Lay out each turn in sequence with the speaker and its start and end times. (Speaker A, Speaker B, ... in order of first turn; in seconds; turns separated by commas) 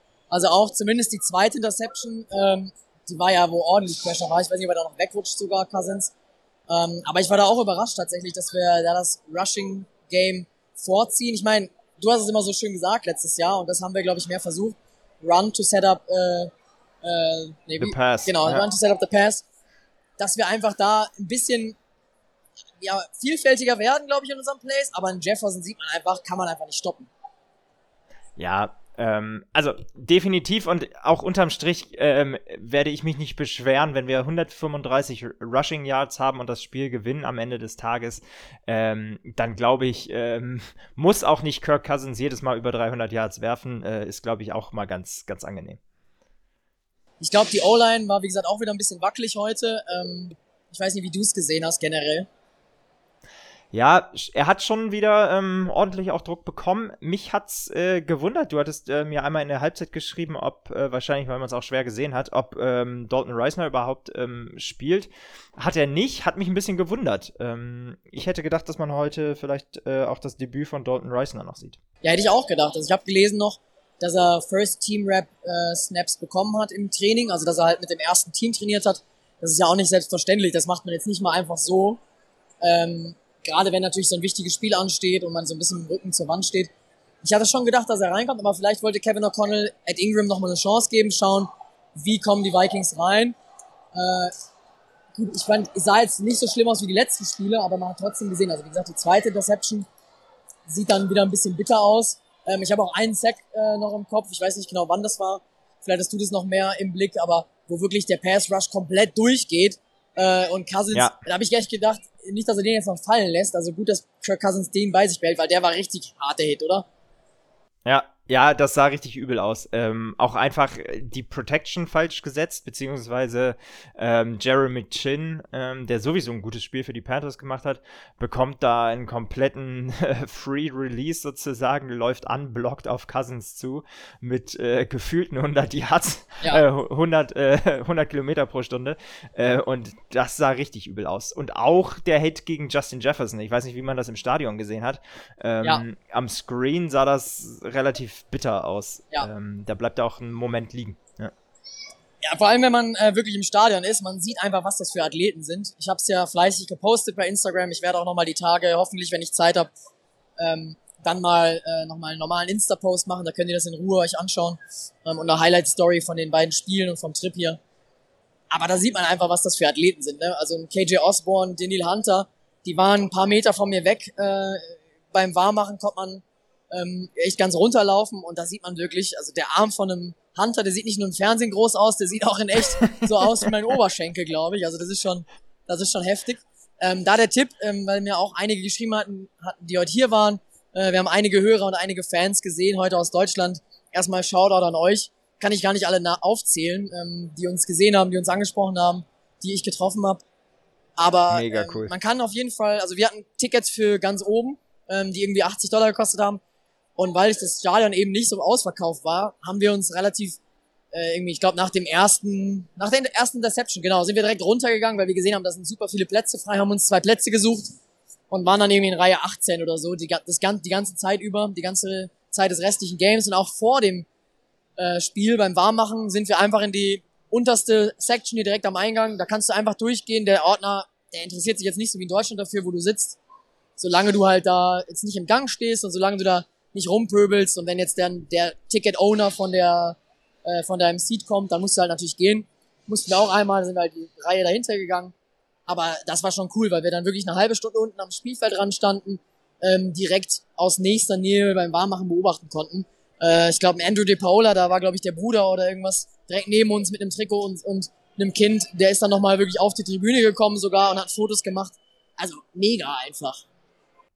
Speaker A: 0.3-6.1, Speaker A: 6.7-16.5, Speaker A: 17.0-19.4, Speaker B: 17.8-18.7, Speaker A: 20.2-21.8, Speaker A: 22.8-27.1, Speaker B: 28.4-45.8, Speaker A: 47.2-52.3, Speaker B: 53.7-71.8, Speaker A: 72.0-82.0, Speaker A: 82.6-86.7, Speaker A: 87.2-93.3, Speaker A: 93.9-94.3, Speaker A: 95.1-99.9, Speaker A: 100.7-116.9, Speaker B: 117.8-151.3, Speaker A: 152.2-159.7, Speaker A: 160.4-167.6, Speaker A: 168.5-200.2, Speaker A: 201.0-206.4, Speaker B: 201.3-201.9, Speaker A: 207.0-210.4, Speaker A: 210.9-217.7, Speaker A: 218.3-224.1, Speaker A: 224.8-233.2, Speaker A: 233.8-245.1, Speaker A: 245.7-263.4